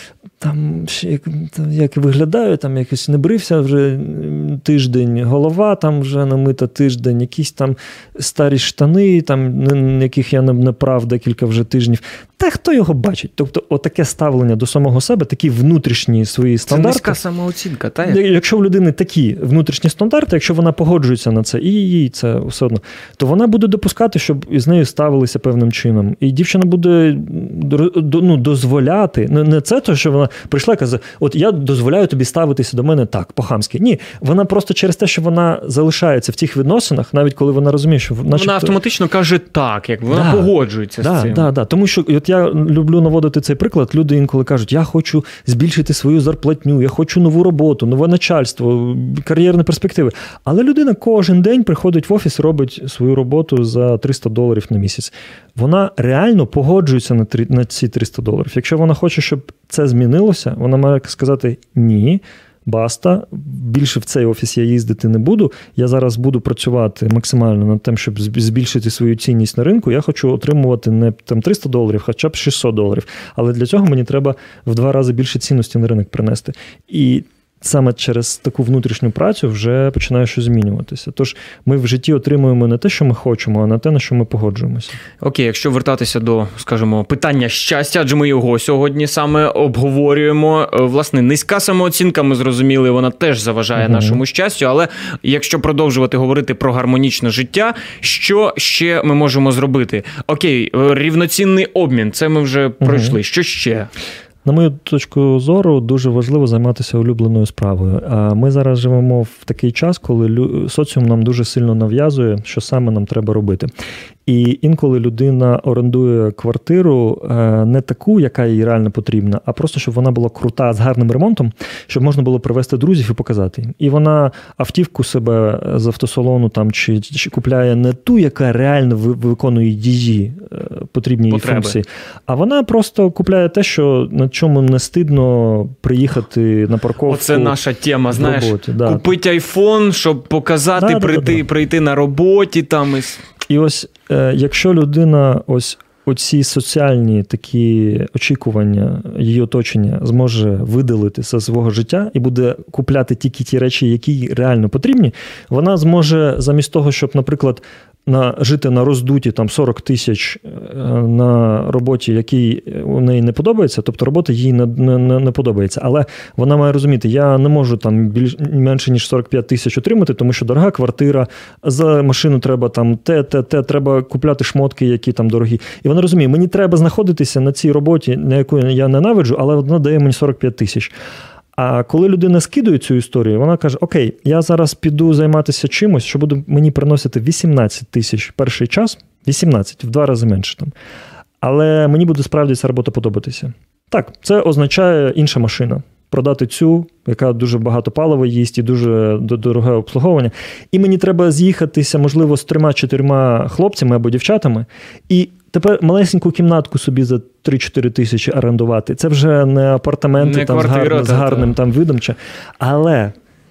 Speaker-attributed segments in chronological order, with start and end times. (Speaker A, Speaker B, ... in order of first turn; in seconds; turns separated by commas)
Speaker A: 0.4-17.2, Speaker B: 16.7-18.2, Speaker A: 18.1-38.8, Speaker B: 38.3-41.5, Speaker A: 40.1-85.0, Speaker B: 85.2-103.9, Speaker A: 93.8-94.2, Speaker A: 102.8-103.2, Speaker A: 104.5-113.7, Speaker A: 114.3-137.6, Speaker B: 131.3-131.8, Speaker B: 137.1-143.2, Speaker A: 138.1-139.1, Speaker A: 140.8-141.4, Speaker A: 143.5-180.9, Speaker A: 181.6-190.7, Speaker A: 191.4-213.2, Speaker B: 210.2-211.5